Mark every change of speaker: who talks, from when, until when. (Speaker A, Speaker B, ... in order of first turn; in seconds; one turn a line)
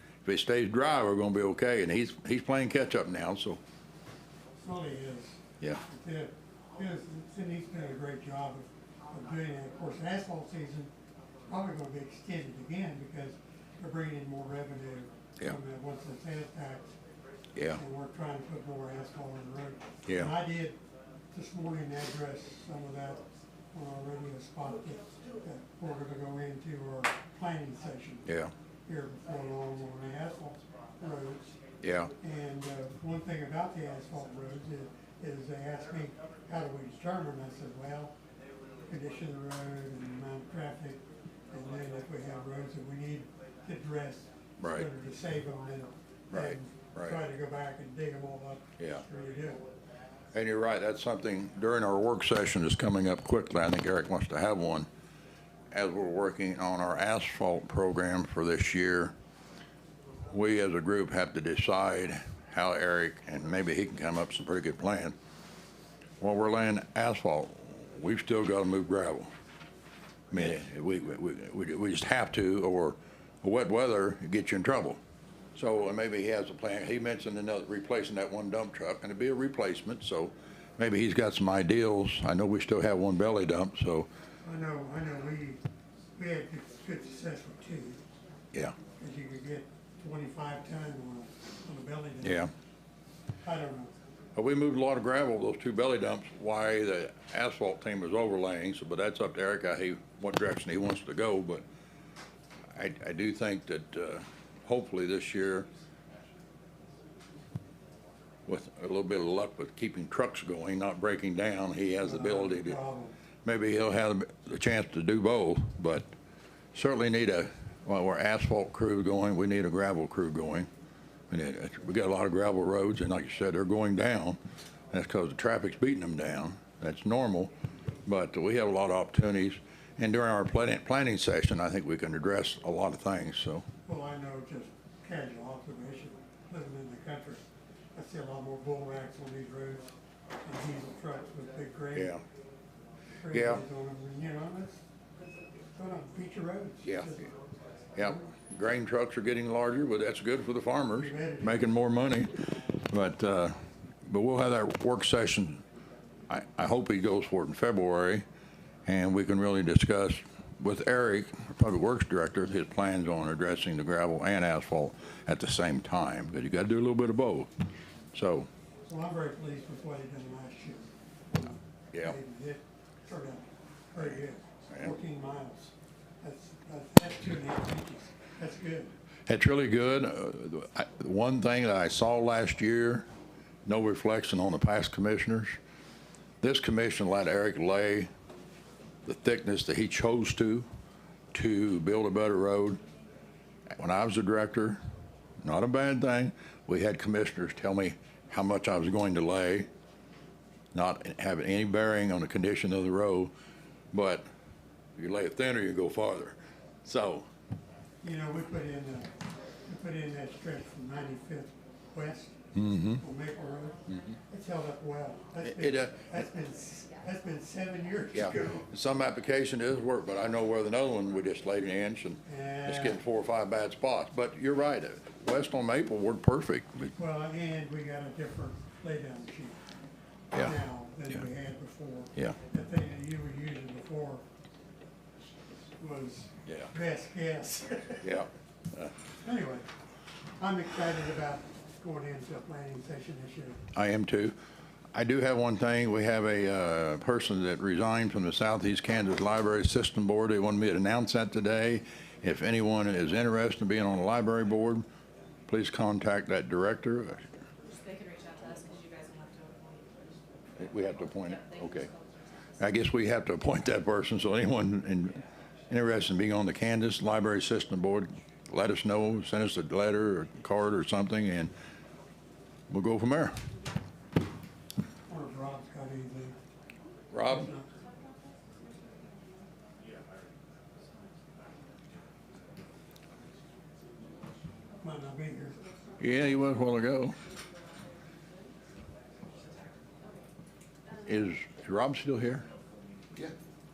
Speaker A: 0.2-3.6
Speaker B: 4.6-10.9
Speaker B: 11.4-17.0
Speaker A: 17.6-17.8
Speaker B: 17.7-20.8
Speaker A: 20.1-20.3
Speaker B: 21.3-28.3
Speaker A: 28.2-28.5
Speaker B: 28.9-31.6
Speaker A: 31.8-32.1
Speaker B: 32.2-38.1
Speaker B: 38.8-49.6
Speaker A: 44.6-44.9
Speaker A: 46.3-47.2
Speaker A: 50.3-54.9
Speaker A: 55.7-59.1
Speaker A: 60.3-65.2
Speaker A: 66.2-69.3
Speaker A: 70.3-75.0
Speaker A: 75.5-84.1
Speaker B: 84.4-85.6
Speaker B: 86.2-88.0
Speaker B: 89.0-92.5
Speaker A: 92.2-92.5
Speaker B: 93.4-93.9
Speaker A: 94.3-101.7
Speaker A: 102.7-105.7
Speaker A: 108.5-112.8
Speaker B: 112.0-113.2
Speaker A: 113.4-116.1
Speaker A: 116.7-120.7
Speaker A: 121.3-124.4
Speaker A: 124.9-127.5
Speaker A: 128.1-133.7
Speaker B: 133.8-142.2
Speaker A: 141.9-142.2
Speaker B: 143.2-144.8
Speaker A: 143.3-143.6
Speaker B: 145.7-147.3
Speaker A: 146.8-147.3
Speaker A: 147.9-155.6
Speaker B: 150.9-151.7
Speaker A: 156.3-158.2
Speaker A: 158.8-167.5
Speaker A: 168.1-168.5
Speaker B: 168.8-178.9
Speaker A: 179.3-183.1
Speaker A: 183.7-185.6
Speaker A: 186.4-188.1
Speaker A: 189.1-190.7
Speaker A: 191.3-192.8
Speaker A: 193.7-194.8
Speaker A: 195.4-199.7
Speaker A: 200.7-203.3
Speaker A: 203.9-204.3
Speaker A: 205.0-207.3
Speaker B: 208.0-209.1
Speaker B: 209.7-218.7
Speaker A: 212.6-213.0
Speaker A: 215.4-216.1
Speaker A: 218.1-226.9
Speaker B: 222.2-223.0
Speaker B: 227.0-229.6
Speaker B: 230.3-234.2
Speaker B: 235.8-238.1
Speaker A: 238.0-238.9
Speaker B: 239.2-239.7
Speaker B: 240.4-243.6
Speaker A: 243.7-244.3
Speaker A: 244.9-254.8
Speaker A: 255.5-257.3
Speaker C: 257.6-260.2
Speaker A: 260.6-261.9
Speaker C: 260.9-262.6
Speaker A: 262.6-271.5
Speaker A: 272.7-273.4
Speaker B: 275.1-276.4
Speaker A: 277.1-277.5
Speaker B: 277.2-277.7
Speaker C: 277.7-279.9
Speaker B: 284.8-285.6
Speaker A: 286.0-287.2
Speaker C: 287.2-287.6
Speaker A: 291.0-292.4